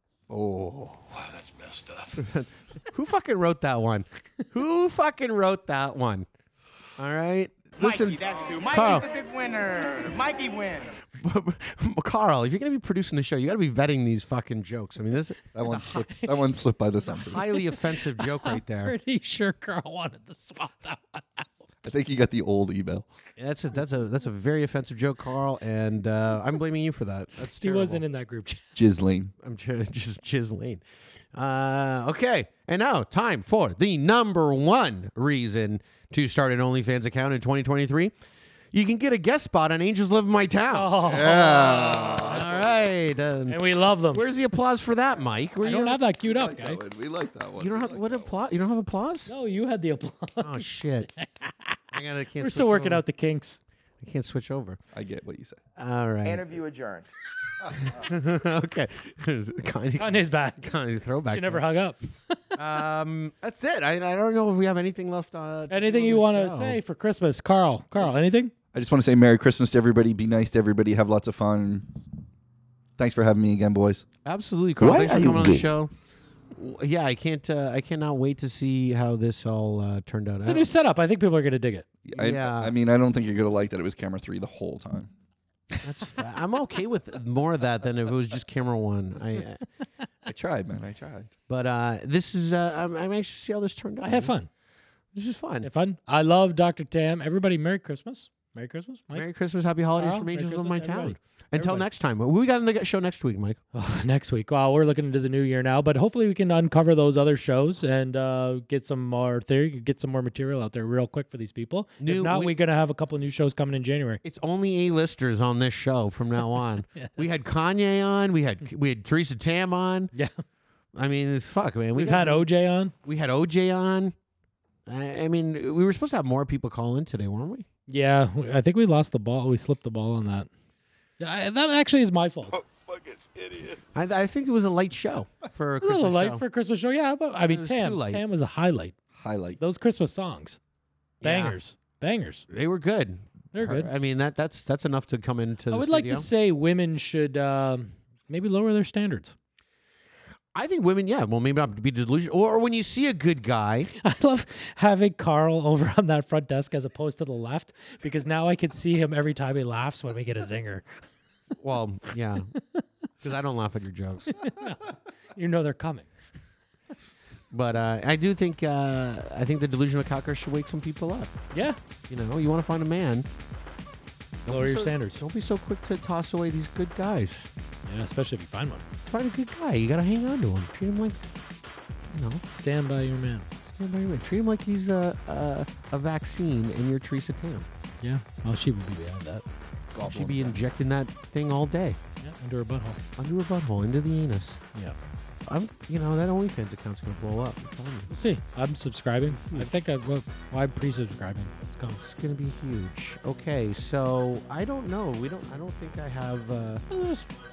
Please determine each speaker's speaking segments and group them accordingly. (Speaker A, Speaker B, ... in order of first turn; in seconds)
Speaker A: 0.3-1.2, 15.5-17.5, 21.8-23.1, 28.7-29.3, 41.1-42.8, 46.2-48.3, 54.9-55.6, 68.7-71.9, 73.0-74.0, 74.8-75.6, 82.0-85.1, 90.3-91.3, 132.9-133.2, 139.2-139.6, 189.9-190.6
Speaker B: 2.1-6.3, 7.0-9.1, 11.1-15.4, 17.2-18.9, 23.4-28.0, 29.4-30.8, 31.3-38.1, 38.7-46.0, 47.6-49.3, 50.4-51.1, 51.9-53.0, 54.0-54.8, 55.8-56.5, 57.8-61.6, 62.5-66.8, 74.2-75.9, 76.5-80.7, 82.1-82.7, 85.8-89.6, 91.5-94.3, 95.1-95.7, 99.1-103.6, 112.0-112.5, 114.2-120.1, 120.9-122.5, 123.0-124.1, 124.8-127.7, 133.9-136.4, 137.4-138.2, 141.2-141.6, 142.5-146.3, 150.5-153.9, 161.6-162.5, 163.2-164.5, 167.5-171.3, 172.1-173.3, 174.4-177.5, 179.1-181.2, 182.1-182.4, 183.6-187.7, 190.0-192.0, 193.2-194.6, 195.4-198.1, 199.2-199.7, 201.9-206.8
Speaker C: 7.8-11.0, 56.2-57.1
Speaker D: 15.7-16.6, 17.5-21.9, 27.6-28.6, 40.7-42.7, 43.5-44.2, 45.6-46.8, 49.3-51.8, 52.4-53.6, 60.0-60.7, 61.3-62.5, 65.7-68.5, 80.4-81.8, 94.0-94.5, 95.6-99.3, 100.0-101.8, 103.7-114.2, 116.9-117.3, 121.9-122.9, 127.9-130.5, 131.2-132.6, 135.8-138.9, 139.6-140.6, 141.2-142.4, 143.5-143.9, 145.7-149.3, 154.0-160.9, 164.4-166.1, 171.5-171.8, 174.5-175.2, 177.8-178.9, 182.5-183.5, 188.0-189.4, 192.2-193.0, 198.1-202.0, 206.9-207.3